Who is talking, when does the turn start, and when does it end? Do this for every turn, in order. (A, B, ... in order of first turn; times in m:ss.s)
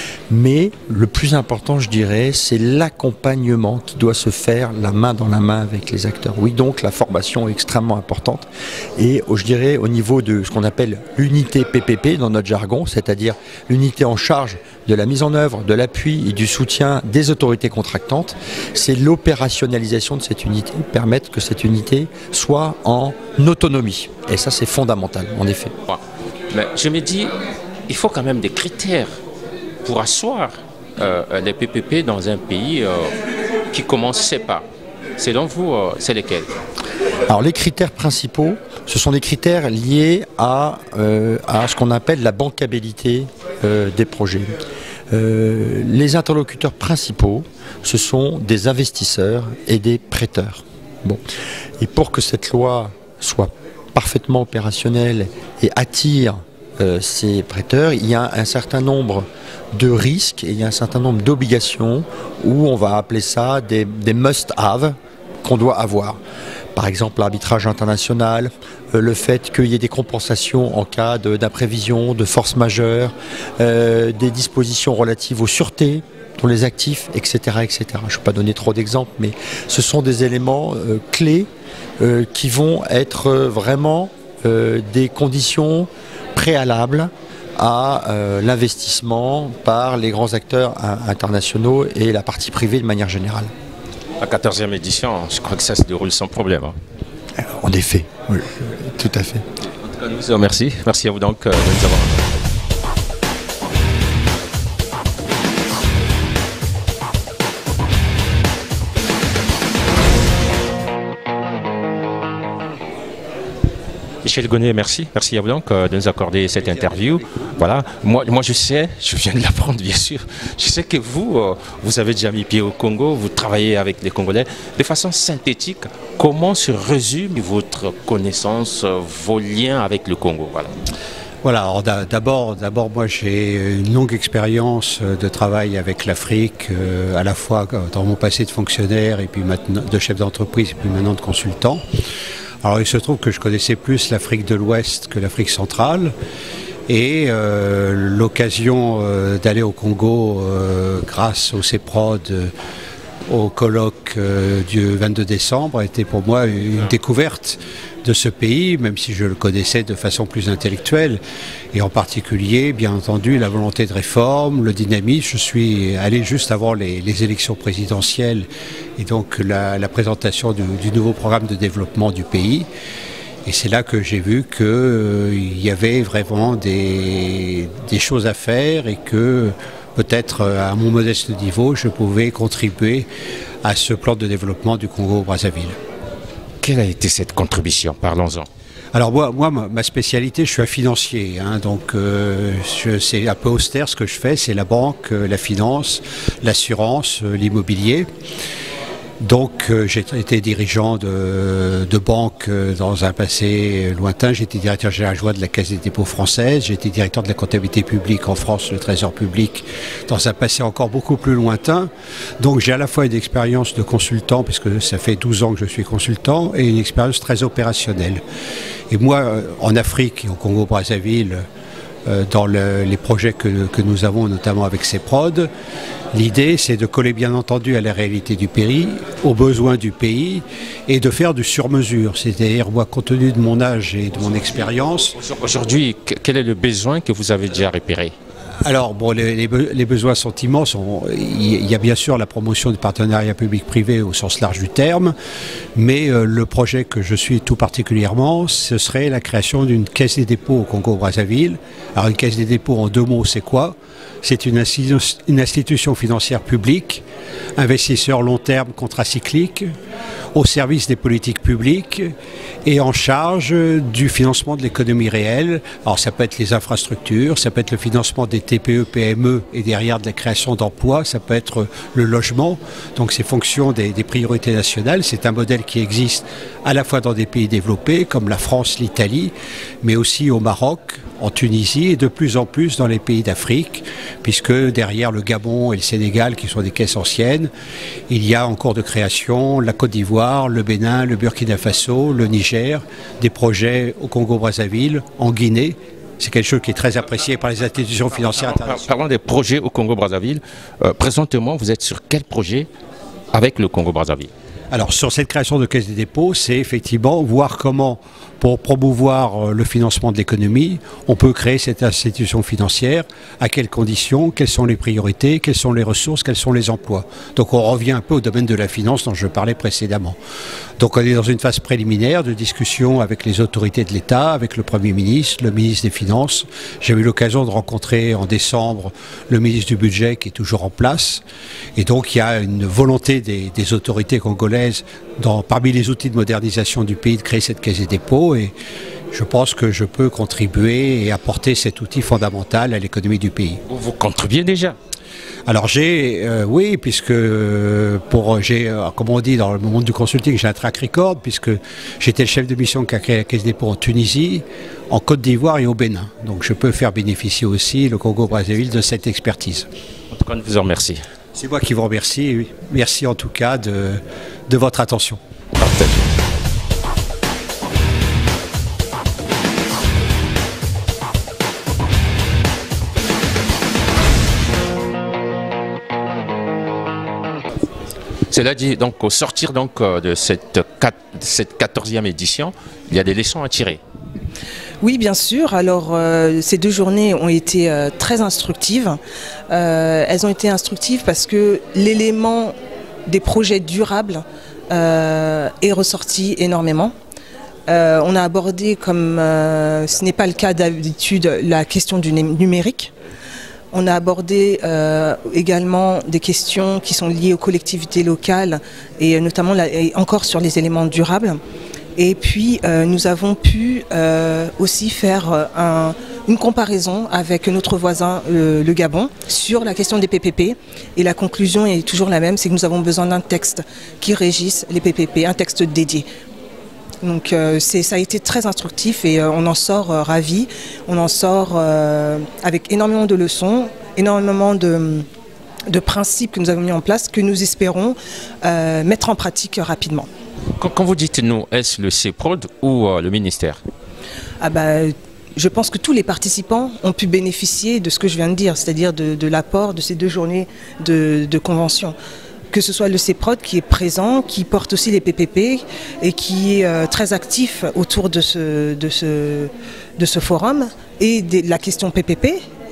0:00.3-0:25.7 A
0:25.9-0:27.3 B
0:27.9-0:29.2 B
0:29.8-0:33.1 B
0:33.7-0:36.5 B
0:37.3-0:44.6 A
0:45.1-0:51.2 A
0:51.8-1:06.2 A
1:06.8-1:33.5 A
1:34.2-1:36.8 B
1:37.4-1:39.4 A
1:39.6-1:42.4 B
1:54.2-2:10.7 B
2:11.4-2:21.8 C
2:22.6-2:26.1 C
2:26.9-2:32.5 C
2:33.3-2:41.2 C
2:41.7-2:52.7 C
2:53.5-3:03.1 C
3:03.6-3:05.8 C
3:06.6-3:08.5 B
3:08.9-3:18.1 C
3:19.2-3:38.2 C
3:38.9-3:41.5 C
3:42.1-3:45.5 C
3:46.1-3:55.1 C
3:54.2-3:58.2 B
3:58.6-4:05.2 C
4:05.8-4:17.0 C
4:17.6-4:19.7 C
4:20.3-4:22.1 C
4:22.6-4:47.5 C
4:48.1-4:58.8 C
4:58.4-5:02.7 B
5:03.3-5:04.3 B
5:04.7-5:20.2 C
5:20.8-5:31.2 C
5:31.8-5:38.5 C
5:39.1-5:43.6 C
5:43.7-5:44.8 B
5:45.5-5:59.7 C
6:00.1-6:01.0 B
6:01.4-6:05.2 C
6:05.6-6:06.1 B
6:18.3-6:23.8 B
6:24.8-6:36.9 D
6:37.7-6:42.9 D
6:43.7-6:51.4 D
6:52.0-7:06.1 D
7:07.0-7:15.1 D
7:15.7-7:20.1 D
7:20.6-7:23.6 B
7:24.4-7:32.0 D
7:32.5-7:42.4 D